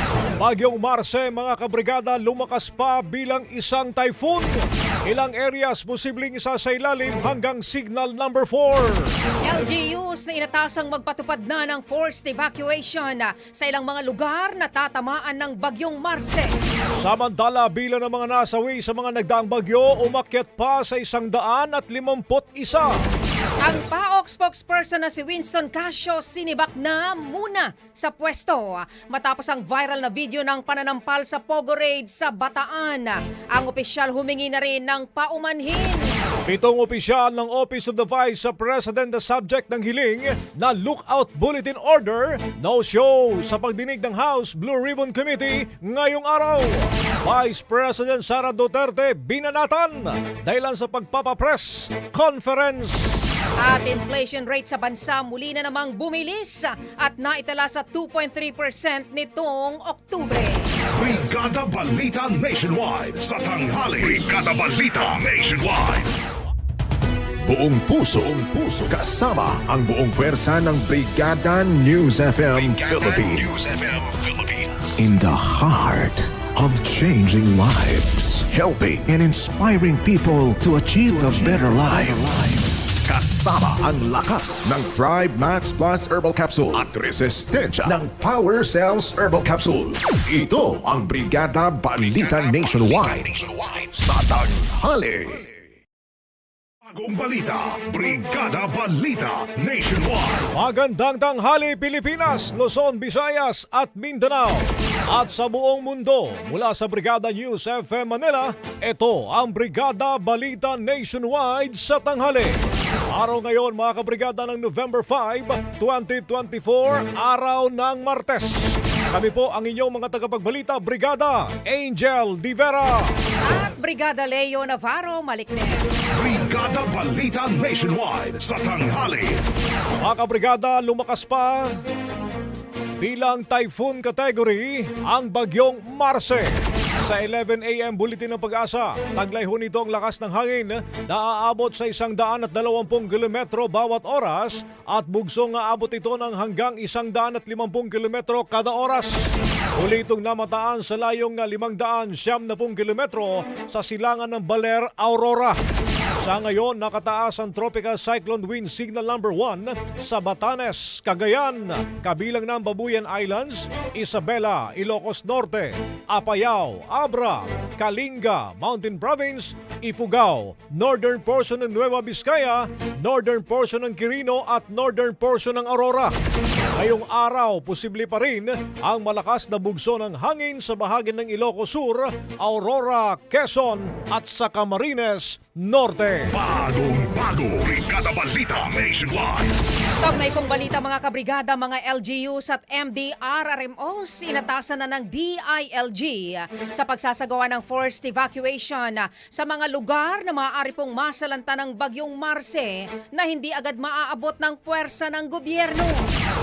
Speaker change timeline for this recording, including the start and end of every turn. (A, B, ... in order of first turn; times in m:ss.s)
0:00.4-0:04.5 A
0:05.0-0:09.1 A
0:09.4-0:16.5 B
0:17.0-0:22.9 A
0:23.6-0:36.1 B
0:36.4-0:53.2 A
0:53.6-1:00.7 B
1:00.9-1:06.1 C
1:07.4-1:35.5 D
1:36.9-1:40.5 C
1:40.5-1:52.6 A
1:53.1-2:03.1 A
2:03.4-2:05.8 B
2:06.1-2:09.4 C
2:10.0-2:11.7 A
2:13.0-2:16.5 A
2:17.0-2:35.6 A
2:36.2-2:56.1 A
2:56.8-3:06.3 A
3:06.3-3:09.6 C
3:10.0-3:26.0 B